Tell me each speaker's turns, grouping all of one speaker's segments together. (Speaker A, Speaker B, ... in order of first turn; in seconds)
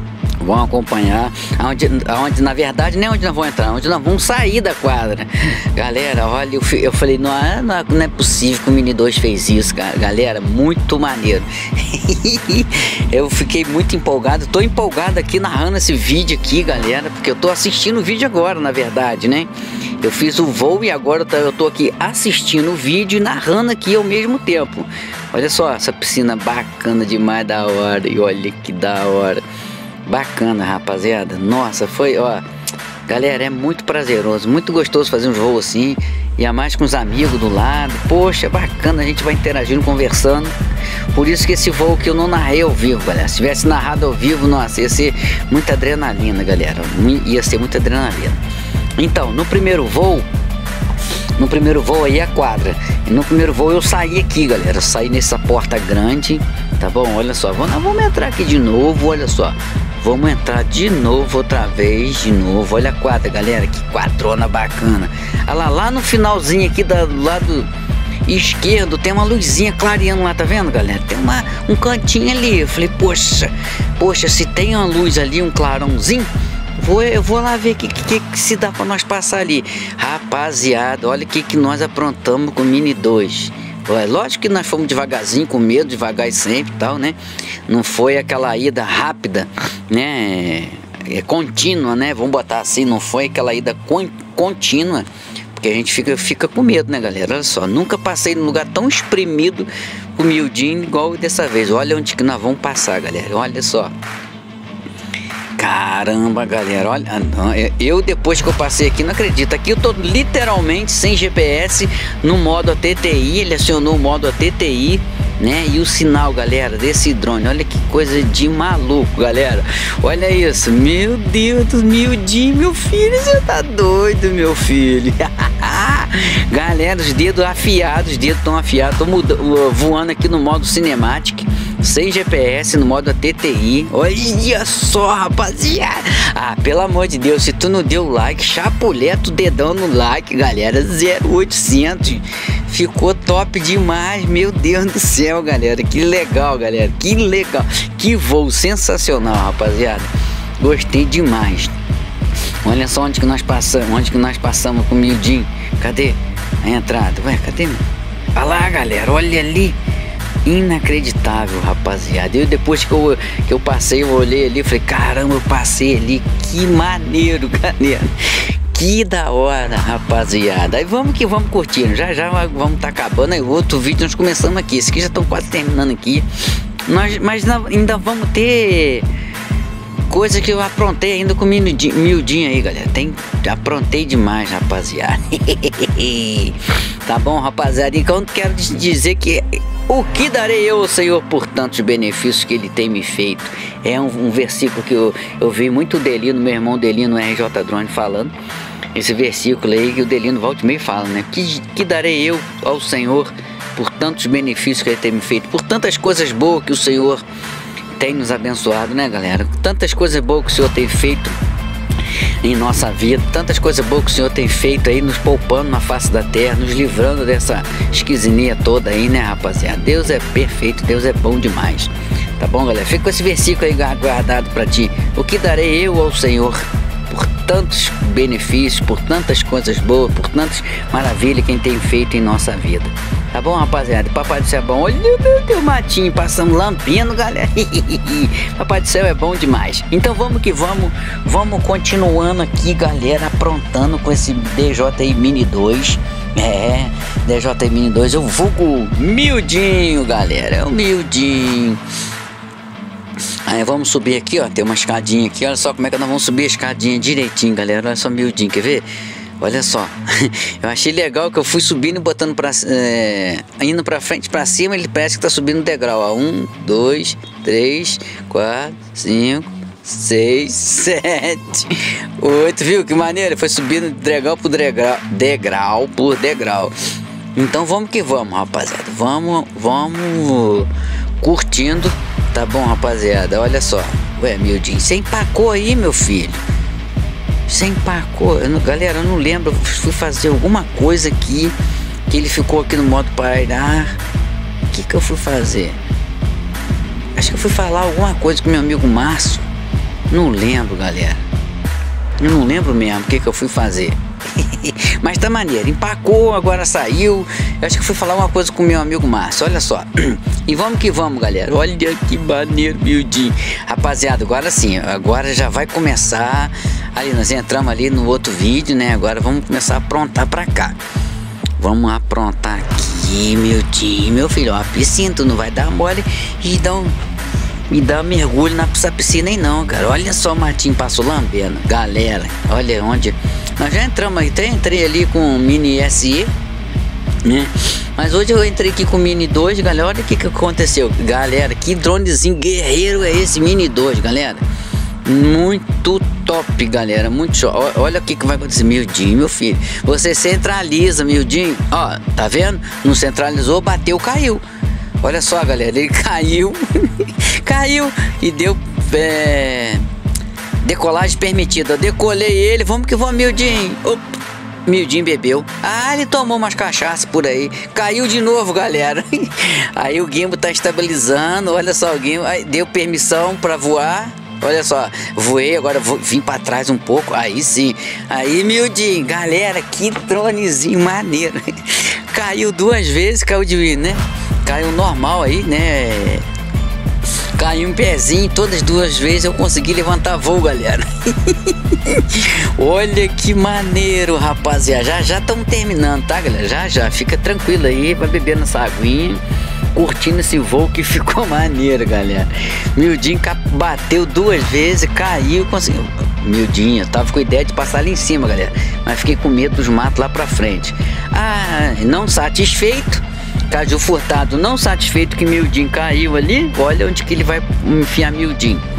Speaker A: 0.4-29.4, 30.1-32.4, 33.1-40.5, 41.1-48.4, 49.0-50.3, 51.4-67.7, 68.3-103.9, 105.6-151.8, 152.6-157.8, 158.4-159.8, 160.4-176.3, 176.9-179.1, 180.1-198.3, 198.9-207.2, 208.0-211.4, 212.4-251.8, 253.4-258.9, 259.4-276.8, 277.4-286.4, 287.5-291.6, 292.1-294.0, 294.7-295.8, 297.2-299.4, 300.1-301.2, 302.2-320.8, 321.6-327.0, 327.7-336.3, 337.2-344.4, 345.1-354.4, 355.0-359.8, 360.6-386.3, 387.4-399.2, 399.7-418.6